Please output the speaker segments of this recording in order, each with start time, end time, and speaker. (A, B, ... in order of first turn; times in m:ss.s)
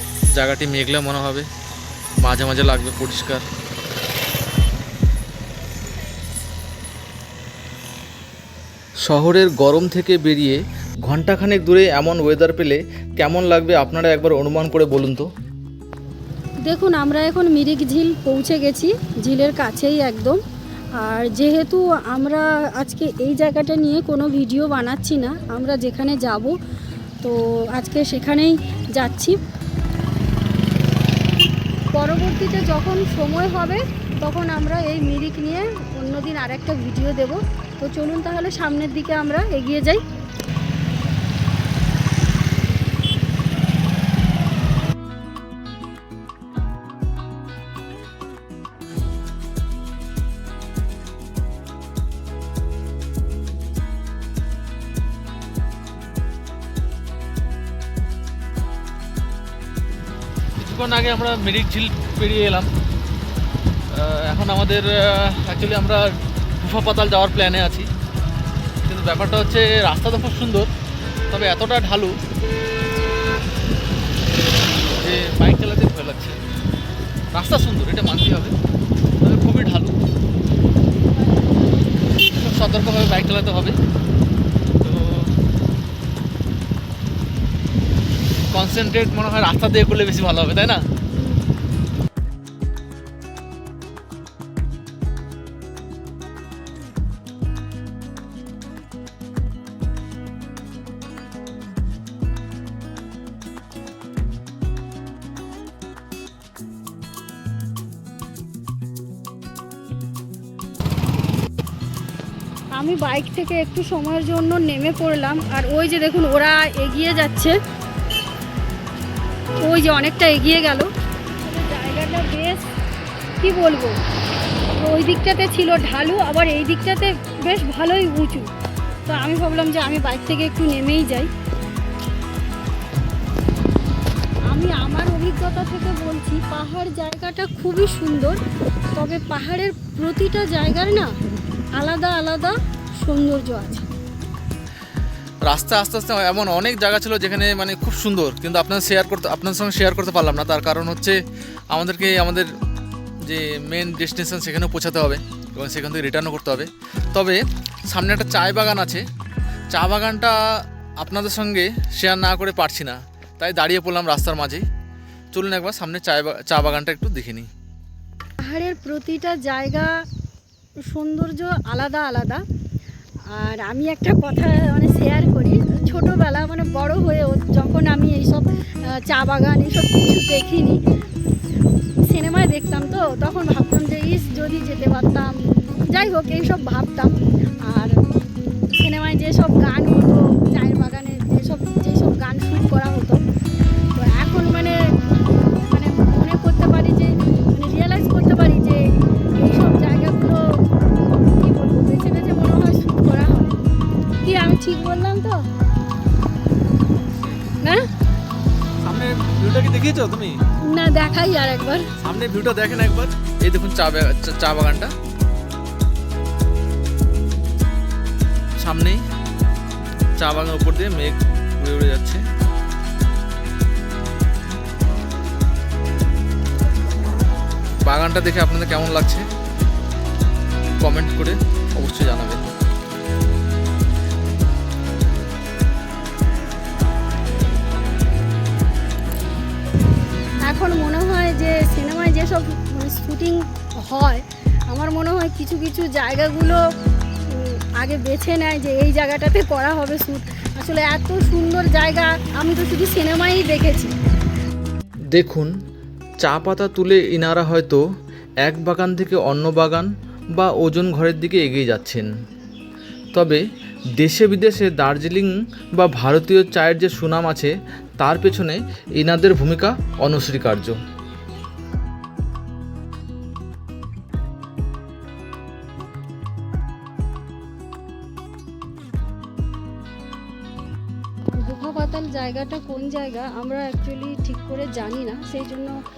0:00.3-0:01.5 A
0:02.2-0:03.4 A
0:09.0-0:15.3 A
0:16.7-0:20.4 B
0:21.0-0:26.6 B
0:27.2-0:29.4 B
0:31.9-0:40.0 B
1:00.6-1:02.7 A
1:03.9-1:07.9 A
1:08.8-1:10.7 A
1:11.3-1:12.1 A
1:14.8-1:16.4 A
1:17.3-1:18.5 A
1:19.2-1:19.9 A
1:22.2-1:23.8 A
1:24.8-1:25.4 A
1:28.5-1:30.8 A
1:52.7-1:57.6 B
1:59.6-2:00.9 B
2:01.4-2:02.7 B
2:03.4-2:04.0 B
2:04.8-2:08.5 B
2:09.0-2:11.3 B
2:14.5-2:18.4 B
2:18.9-2:21.1 B
2:21.8-2:23.8 B
2:25.4-2:31.2 A
2:31.7-2:32.5 A
2:33.2-2:39.0 A
2:39.7-2:40.4 A
2:41.0-2:44.6 A
2:45.3-2:47.5 A
2:48.4-2:49.9 B
2:50.9-2:52.4 B
2:53.3-3:00.8 B
3:02.1-3:08.0 B
3:08.7-3:13.2 B
3:14.0-3:14.8 B
3:15.7-3:23.5 B
3:24.2-3:25.4 B
3:28.8-3:30.4 A
3:30.7-3:31.8 B
3:32.0-3:34.9 A
3:38.6-3:39.0 A
3:40.2-3:42.2 A
3:47.8-3:49.2 A
3:50.8-3:52.4 A
4:00.4-4:06.6 B
4:07.3-4:13.9 B
4:15.1-4:15.5 A
4:16.2-4:17.8 A
4:18.4-4:22.1 A
4:23.1-4:23.4 A
4:24.0-4:30.8 A
4:41.4-4:45.8 B